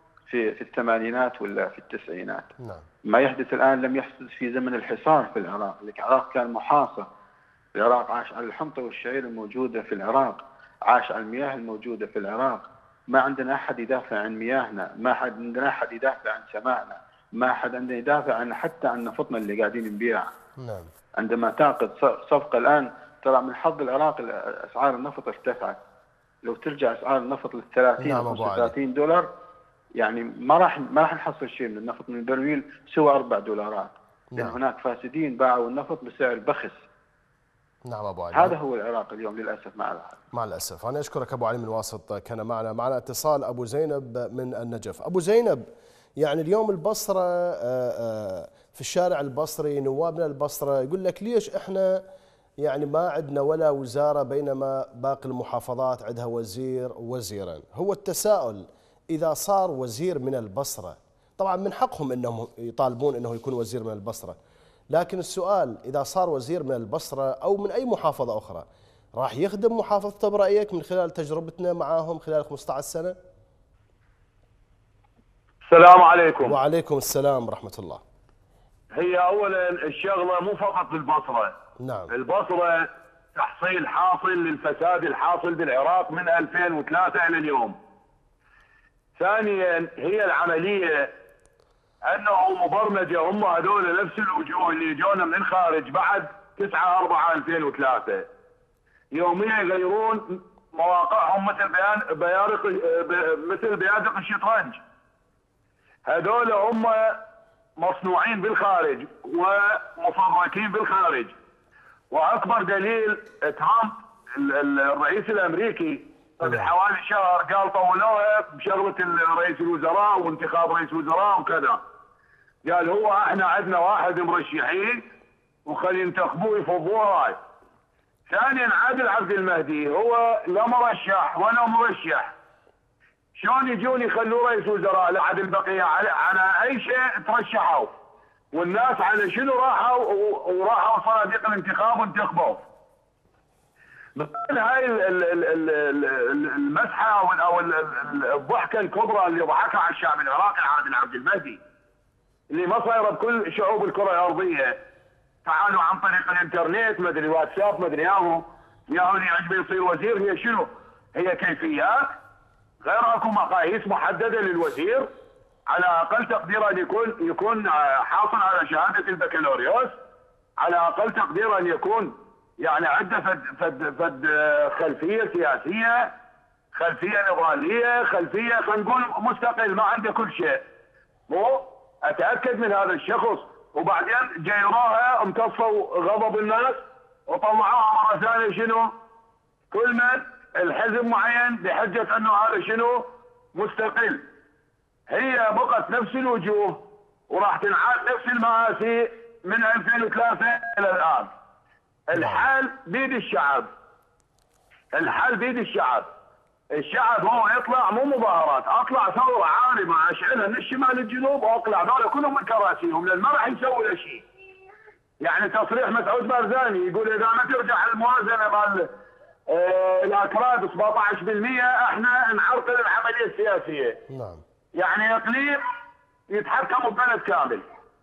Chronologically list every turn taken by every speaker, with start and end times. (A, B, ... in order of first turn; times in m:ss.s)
0:00.3-0:02.5 A
0:02.6-0:02.8 B
0:03.1-0:07.1 A
0:07.8-0:20.2 A
0:20.6-0:20.9 B
0:21.2-0:25.8 A
0:26.4-0:29.3 A
0:28.0-0:28.7 B
0:30.0-0:36.8 A
0:34.3-0:34.6 B
0:37.8-0:38.6 B
0:38.3-0:40.2 A
0:40.3-0:45.6 B
0:46.2-0:52.0 B
0:52.6-1:04.4 B
1:04.9-1:08.6 B
1:09.2-1:13.2 B
1:15.7-1:16.6 C
1:16.4-1:18.0 B
1:18.9-1:21.5 C
1:21.8-1:22.1 B
1:22.1-1:27.8 C
1:29.2-1:31.1 C
1:32.0-1:38.3 C
1:39.1-1:44.8 C
1:46.0-1:47.2 C
1:47.8-1:51.3 C
1:52.1-2:01.8 C
1:56.4-1:56.7 B
2:02.6-2:05.0 C
2:05.6-2:07.4 C
2:08.3-2:12.3 C
2:13.4-2:17.9 C
2:18.5-2:22.6 C
2:24.2-2:31.6 C
2:32.5-2:34.8 C
2:35.4-2:42.1 C
2:42.8-2:45.1 C
2:45.7-2:50.0 C
2:50.6-2:56.1 C
2:56.7-3:00.6 C
3:01.3-3:08.9 C
3:09.7-3:14.2 C
3:15.1-3:21.3 C
3:22.1-3:23.7 C
3:22.1-3:22.4 B
3:24.9-3:26.1 C
3:26.7-3:34.2 C
3:35.2-3:38.9 C
3:39.5-3:44.0 C
3:44.1-3:44.4 B
3:44.7-3:45.6 C
3:46.3-3:47.6 C